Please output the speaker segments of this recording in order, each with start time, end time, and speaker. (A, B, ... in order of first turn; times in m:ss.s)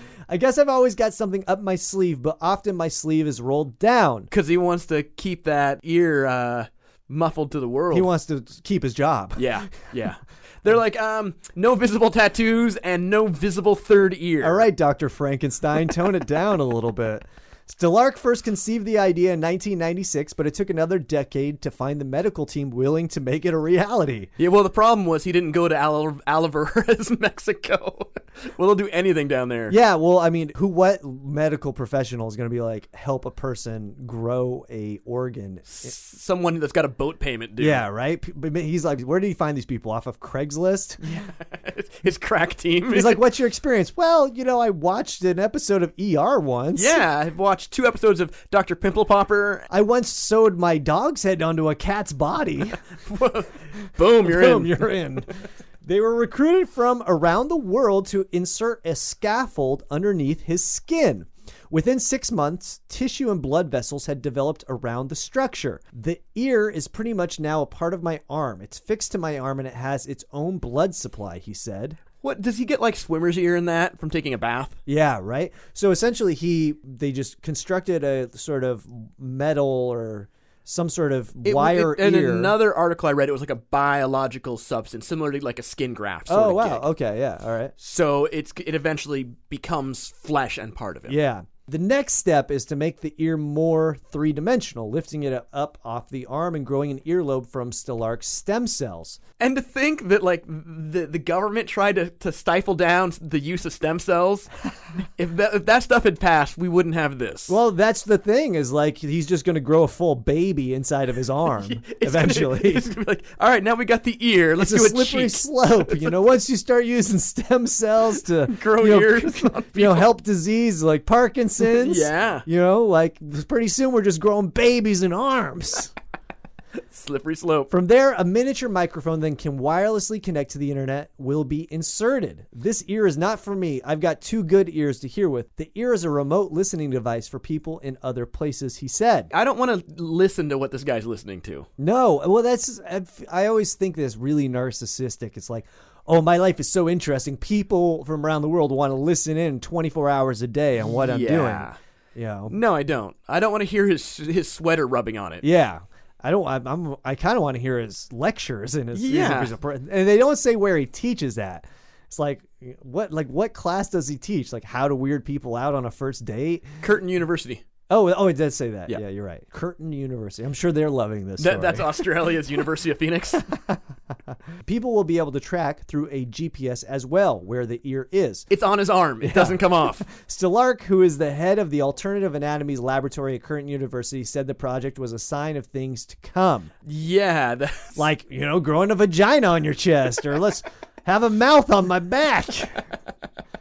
0:00.3-0:04.3 A
0:04.3-0:08.1 B
0:07.9-0:09.5 A
0:09.4-0:14.7 B
0:14.4-0:24.3 A
0:24.4-0:29.8 B
0:29.7-0:35.9 A
0:35.7-0:37.8 B
0:37.6-0:41.0 A
0:41.0-0:43.2 B
0:42.9-0:47.0 A
0:46.7-0:49.7 B
0:49.7-0:52.8 A
0:53.0-0:54.9 B
0:54.2-0:55.3 A
0:55.8-1:12.0 A
1:12.2-1:14.8 B
1:14.9-1:22.6 A
1:21.4-1:26.8 B
1:26.3-1:27.7 A
1:27.8-1:31.2 B
1:31.1-1:39.2 A
1:39.4-1:44.5 B
1:45.2-1:47.6 B
1:47.5-1:52.9 A
1:51.6-1:56.1 B
1:54.6-2:05.9 A
1:58.4-2:00.2 B
2:01.6-2:02.5 B
2:06.8-2:07.7 B
2:07.7-2:19.3 A
2:19.3-2:21.7 B
2:21.8-2:32.6 A
2:30.9-2:31.8 B
2:32.5-2:35.4 B
2:35.4-2:46.7 A
2:38.9-2:39.5 B
2:46.8-2:47.6 B
2:47.9-2:51.9 A
2:51.4-2:53.5 B
2:54.6-2:58.5 A
2:58.5-3:00.1 B
2:59.2-3:06.7 A
3:06.8-3:08.0 B
3:08.0-3:12.8 A